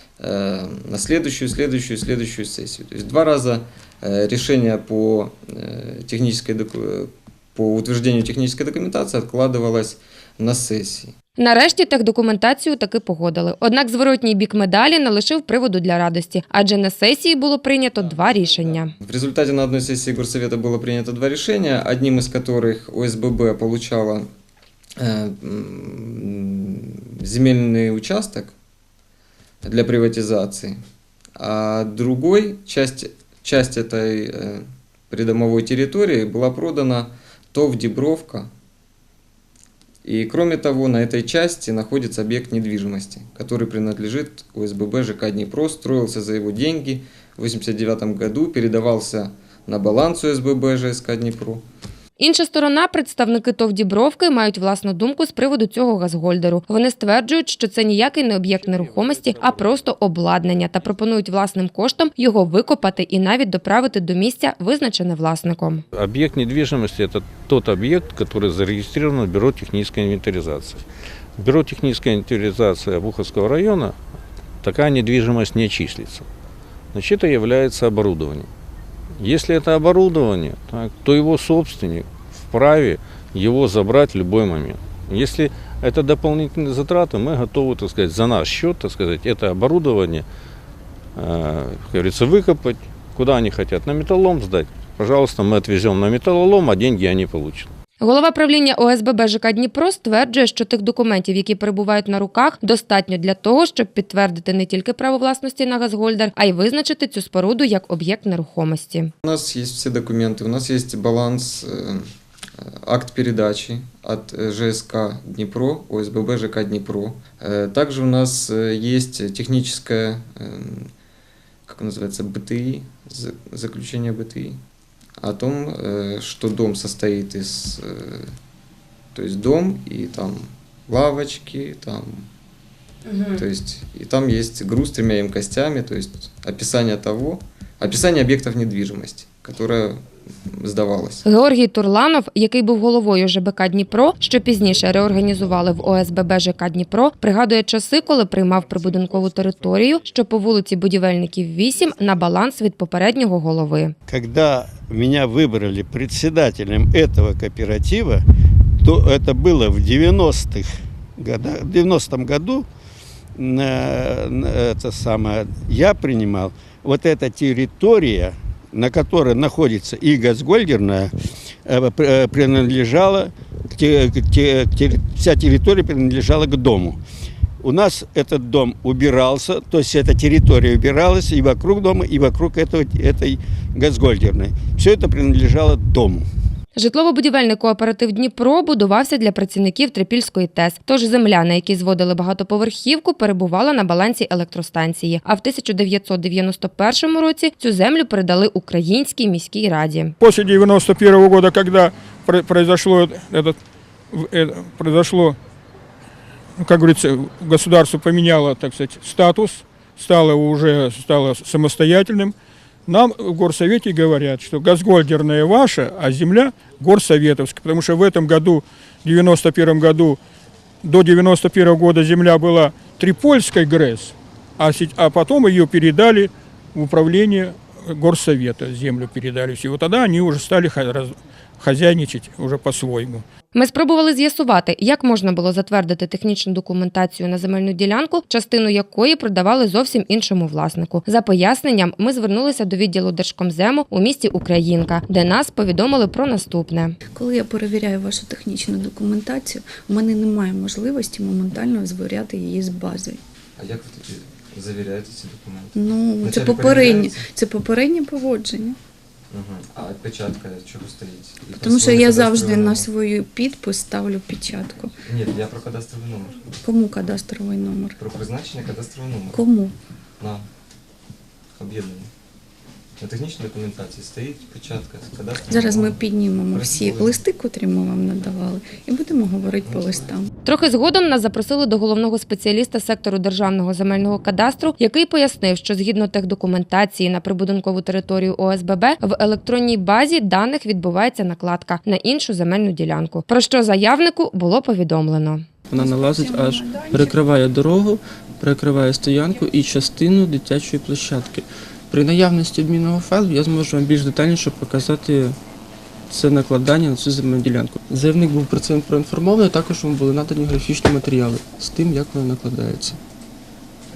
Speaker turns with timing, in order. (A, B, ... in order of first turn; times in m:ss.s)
0:00.2-0:11.1 A
0:11.4-0:18.9 B
0:18.4-0:24.3 A
0:25.0-0:28.5 A
0:29.6-0:30.8 A
0:31.4-0:38.5 A
0:40.0-0:51.6 A
0:52.2-1:05.8 B
1:05.9-1:10.8 C
1:11.4-1:14.0 C
1:14.6-1:16.3 C
1:16.9-1:18.5 C
1:19.2-1:30.2 C
1:31.2-1:37.7 C
1:38.0-1:49.1 B
1:49.2-1:52.0 A
1:52.6-2:00.9 A
2:01.7-2:04.6 A
2:05.2-2:08.3 A
2:09.1-2:12.3 A
2:13.3-2:21.2 A
2:21.2-2:33.9 B
2:34.1-2:38.2 D
2:38.8-2:42.7 D
2:43.4-2:51.1 D
2:51.7-2:57.0 D
2:57.6-3:06.2 D
3:06.8-3:20.1 B
3:20.2-3:23.6 E
3:24.1-3:25.4 E
3:26.6-3:32.4 E
3:32.9-3:40.2 E
3:40.8-3:53.2 E
3:53.5-4:07.0 B
4:07.1-4:13.2 F
4:13.6-4:17.2 A
4:15.8-4:18.8 F
4:19.3-4:22.9 A
4:21.5-4:24.9 F
4:25.0-4:26.5 A
4:26.6-4:28.0 F
4:28.0-4:29.4 A
4:29.3-4:29.8 F
4:30.2-4:30.4 A
4:31.6-4:32.1 A
4:33.0-4:37.2 A
4:35.5-4:40.3 F
4:39.6-4:40.1 A
4:40.4-4:55.4 B
4:55.7-5:05.4 G
4:55.8-4:57.1 F
5:06.1-5:13.0 G